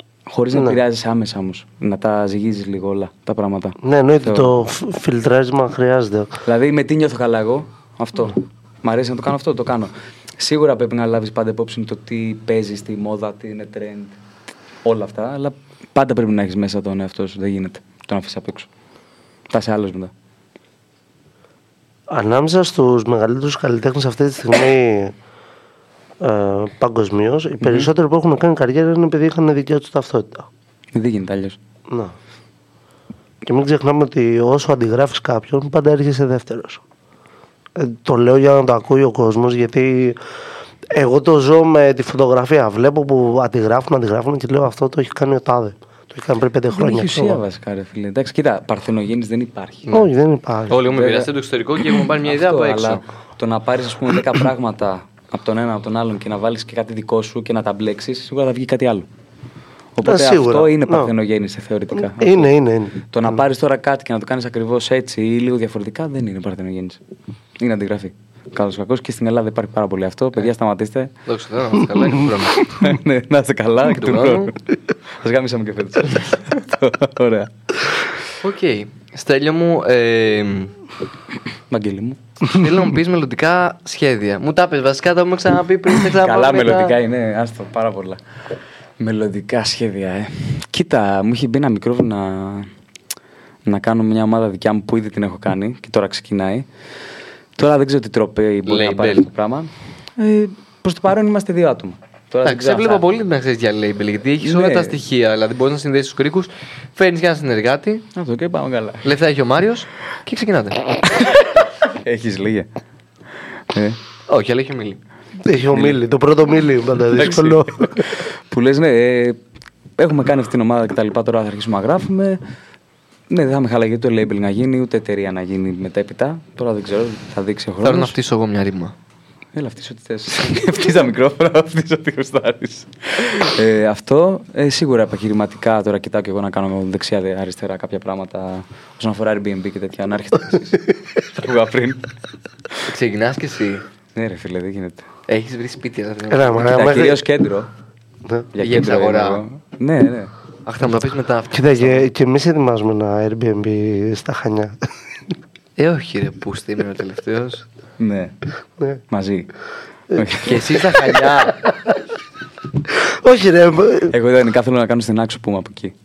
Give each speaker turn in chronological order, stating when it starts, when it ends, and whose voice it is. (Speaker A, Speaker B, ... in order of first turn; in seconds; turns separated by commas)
Speaker A: 0.3-4.5, Speaker B: 0.5-0.8, Speaker B: 3.8-6.3, Speaker A: 6.5-14.2, Speaker A: 14.8-18.7, Speaker A: 19.5-20.1, Speaker B: 22.1-25.1, Speaker B: 26.2-30.5, Speaker A: 27.6-27.9, Speaker A: 30.9-31.6, Speaker B: 31.9-32.1, Speaker B: 33.5-36.8, Speaker B: 37.8-40.2, Speaker B: 40.9-47.4, Speaker A: 46.7-49.9, Speaker B: 49.9-50.8, Speaker C: 50.7-53.0, Speaker A: 50.9-51.3, Speaker A: 52.2-59.1, Speaker A: 60.0-62.5, Speaker B: 60.0-61.1, Speaker B: 62.0-63.4, Speaker A: 63.1-67.0, Speaker A: 67.6-71.1, Speaker C: 71.3-72.7, Speaker A: 72.7-74.6, Speaker C: 73.9-74.5, Speaker A: 75.2-78.0, Speaker C: 78.4-80.7, Speaker A: 81.7-82.2, Speaker C: 82.5-87.0, Speaker A: 86.1-88.2, Speaker A: 89.0-92.7, Speaker A: 93.7-96.7, Speaker A: 97.6-103.0, Speaker C: 98.7-99.3, Speaker C: 102.5-108.0, Speaker A: 104.4-105.0, Speaker A: 108.2-109.1, Speaker C: 109.0-110.8, Speaker A: 111.9-112.7, Speaker A: 113.7-114.0, Speaker C: 114.3-115.0, Speaker B: 115.4-118.1, Speaker A: 115.7-116.0, Speaker A: 117.1-119.4, Speaker A: 120.0-122.4, Speaker A: 123.3-128.2, Speaker C: 127.8-128.9, Speaker A: 129.6-142.1, Speaker C: 142.9-143.8, Speaker A: 144.2-145.1, Speaker C: 145.3-147.0, Speaker B: 146.3-147.2, Speaker A: 146.6-147.7, Speaker A: 148.5-150.3, Speaker C: 148.6-149.4, Speaker C: 150.7-152.1, Speaker B: 151.5-154.8, Speaker C: 155.8-157.7, Speaker A: 158.0-158.3, Speaker A: 159.1-159.5, Speaker A: 160.1-161.3, Speaker C: 160.4-161.6, Speaker B: 162.9-164.1, Speaker A: 164.1-165.9